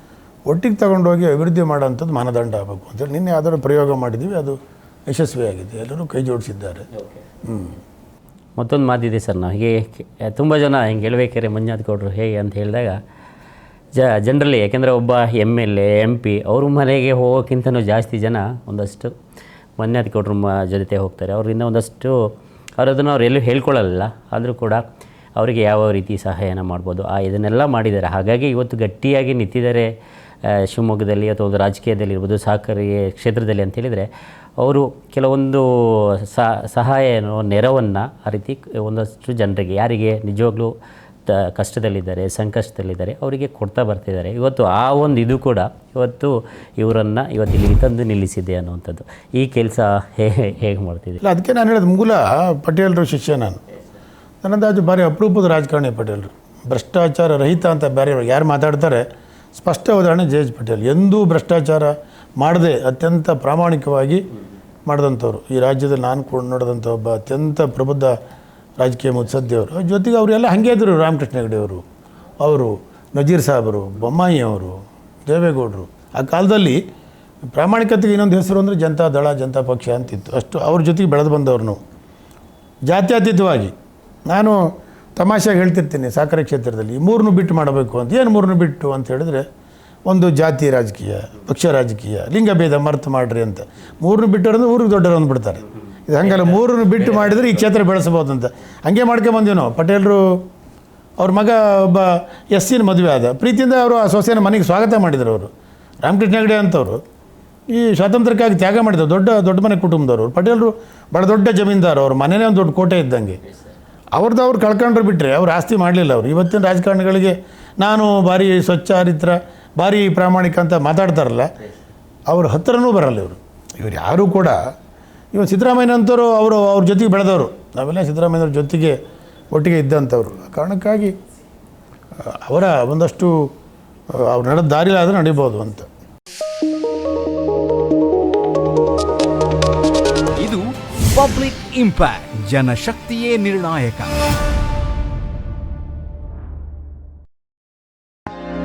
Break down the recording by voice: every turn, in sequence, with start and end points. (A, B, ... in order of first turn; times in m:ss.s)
0:00.5-0:04.6 A
0:05.1-0:06.9 A
0:07.4-0:07.8 A
0:08.6-0:13.0 B
0:14.0-0:19.1 B
0:19.8-0:22.2 B
0:22.8-0:24.8 B
0:25.4-0:29.9 B
0:30.5-0:34.1 B
0:34.6-0:40.7 B
0:41.3-0:51.2 B
0:51.2-0:53.6 A
0:54.4-1:04.2 A
1:04.9-1:08.2 A
1:08.8-1:11.8 A
1:12.4-1:16.8 A
1:17.5-1:21.8 A
1:22.9-1:23.7 A
1:24.3-1:24.6 A
1:25.2-1:29.4 A
1:30.1-1:40.4 A
1:36.2-1:37.5 B
1:41.2-1:45.5 A
1:46.0-1:47.0 A
1:47.7-1:53.4 A
1:54.2-2:01.5 A
2:02.3-2:04.6 A
2:05.3-2:09.0 A
2:09.5-2:11.1 A
2:12.2-2:13.5 A
2:14.1-2:15.9 A
2:20.4-2:24.1 C